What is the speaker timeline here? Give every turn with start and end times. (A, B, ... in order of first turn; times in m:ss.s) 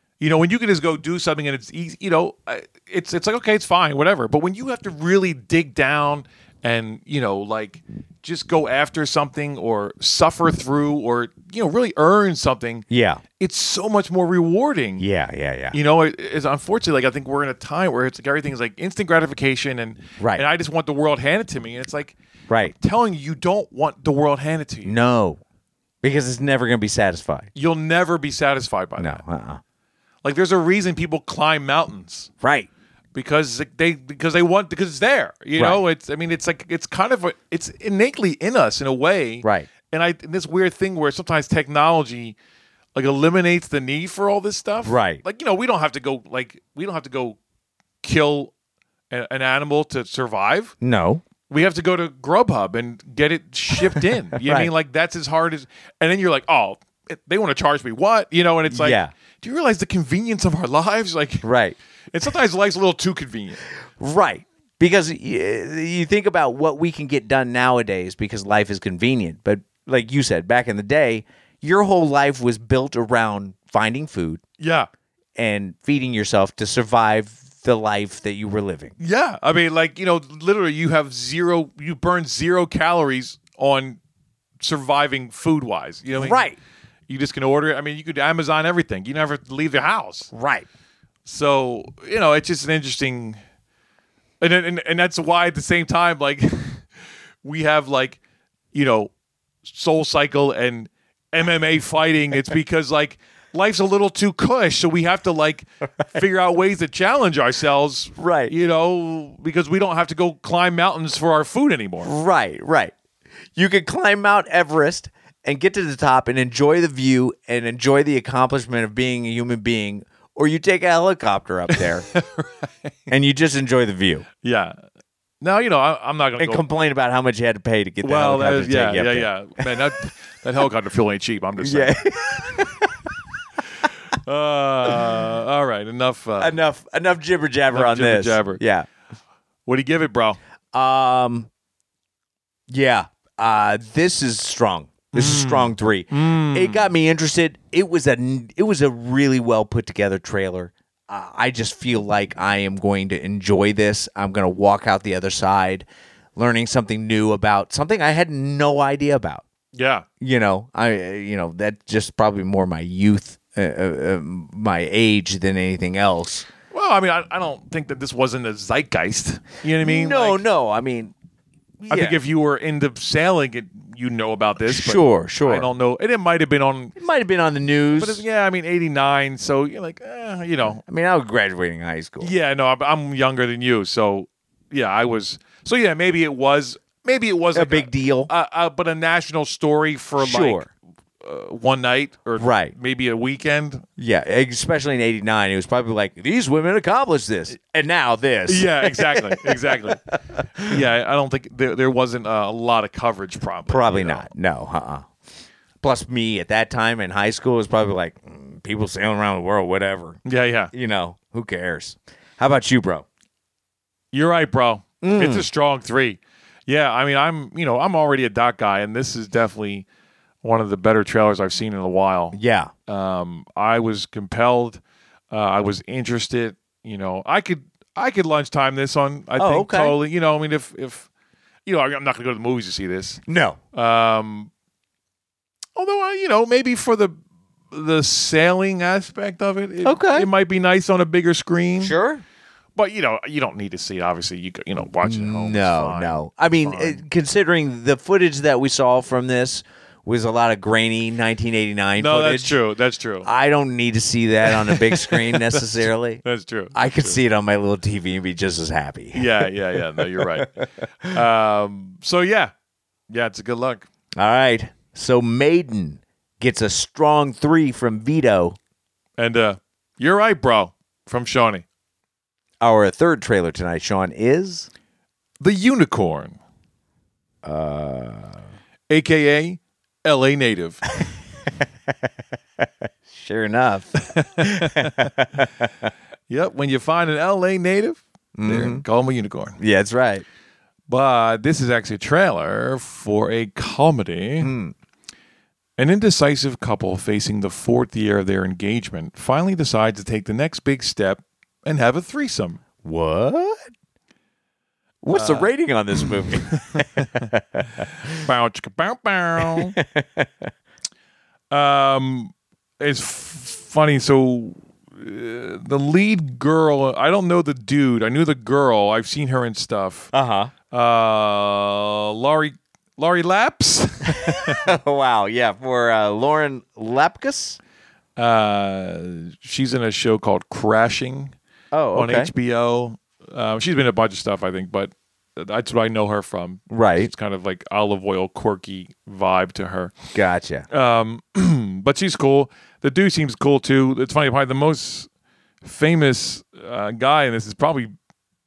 0:00.2-0:12.8 A
0:12.9-0:13.2 B
0:13.4-0:15.0 A
0:15.0-0:15.8 B
0:15.7-0:25.0 A
0:20.2-0:20.4 B
0:22.5-0:22.7 B
0:24.8-0:25.4 B
0:26.0-0:27.5 B
0:27.6-0:29.2 A
0:29.0-0:29.6 B
0:30.2-0:32.3 A
0:32.4-0:32.7 B
0:33.1-0:42.4 A
0:39.4-0:39.7 B
0:43.0-0:47.4 A
0:44.8-0:45.2 B
0:48.0-0:48.5 A
0:49.1-0:50.7 A
0:50.8-0:51.2 B
0:51.5-1:01.5 A
0:54.4-0:54.7 B
0:58.7-0:59.1 B
1:01.4-1:01.8 B
1:02.1-1:03.6 A
1:04.0-1:14.4 B
1:14.6-1:14.9 A
1:15.4-1:18.9 B
1:19.0-1:24.0 A
1:24.6-1:26.5 A
1:26.2-1:26.6 B
1:27.1-1:30.3 A
1:30.3-1:30.7 B
1:31.3-1:33.4 A
1:34.4-1:36.9 A
1:37.4-1:38.2 A
1:38.7-1:39.1 A
1:39.6-1:52.1 A
1:48.2-1:48.5 B
1:52.0-1:52.9 B
1:53.6-2:02.1 B
2:01.7-2:02.7 A
2:03.1-2:04.3 B
2:04.4-2:04.8 A
2:05.4-2:06.6 A
2:06.4-2:09.3 B
2:08.0-2:12.0 A
2:11.6-2:13.0 B
2:14.1-2:16.6 A
2:16.4-2:18.9 B
2:17.7-2:18.6 A
2:19.7-2:20.4 A
2:20.7-2:21.5 B
2:22.7-2:39.4 B
2:25.1-2:26.9 A
2:39.7-2:40.1 A
2:40.2-2:46.5 B
2:46.7-2:50.4 A
2:49.8-2:51.1 B
2:51.8-2:52.2 B
2:51.9-2:57.0 A
2:54.6-2:55.7 B
2:57.0-2:58.2 B
2:58.0-3:00.8 A
3:00.8-3:02.3 B
3:02.2-3:10.7 A
3:07.5-3:08.3 B
3:10.2-3:10.7 B
3:11.2-3:13.8 A
3:12.4-3:12.8 B
3:14.0-3:20.8 B
3:18.5-3:20.0 A
3:20.6-3:24.3 A
3:23.7-3:25.1 B
3:25.8-3:30.2 B
3:30.2-3:30.7 A
3:30.7-3:33.1 B
3:34.1-3:39.9 A
3:35.0-3:35.5 B
3:40.4-3:51.1 A
3:42.3-3:42.7 B
3:49.4-3:50.0 B
3:51.7-3:53.2 A
3:53.3-3:53.6 B
3:53.7-3:54.5 A
3:55.8-3:57.2 A
3:57.7-4:02.0 A
3:59.8-4:00.3 B
4:01.8-4:02.2 B
4:02.8-4:07.0 A
4:05.0-4:12.6 B
4:12.0-4:13.3 A
4:13.2-4:16.2 B
4:14.5-4:17.2 A
4:16.7-4:21.1 B
4:19.1-4:20.5 A
4:21.1-4:22.5 A
4:23.1-4:23.9 A
4:24.2-4:28.6 B
4:29.2-4:31.6 A
4:32.6-4:34.7 B
4:35.4-4:36.4 A
4:37.4-4:38.4 B
4:38.9-4:40.8 A
4:42.6-4:45.9 B
4:44.1-4:45.2 A
4:46.3-4:49.6 A
4:48.4-4:48.8 B
4:49.6-4:50.2 B
4:50.9-4:54.5 A
4:54.4-4:54.8 B
4:55.8-5:02.6 A
5:02.8-5:03.7 B
5:05.0-5:07.9 B
5:05.1-5:07.3 A
5:08.1-5:09.8 A
5:09.4-5:10.5 B
5:11.5-5:20.1 A
5:20.1-5:20.5 B
5:20.7-5:24.7 A
5:24.1-5:27.6 B
5:28.2-5:31.3 A
5:31.7-5:32.3 B
5:32.0-5:40.0 A
5:36.7-5:37.1 B
5:40.2-5:40.7 B
5:40.7-5:45.1 A
5:45.6-5:47.9 A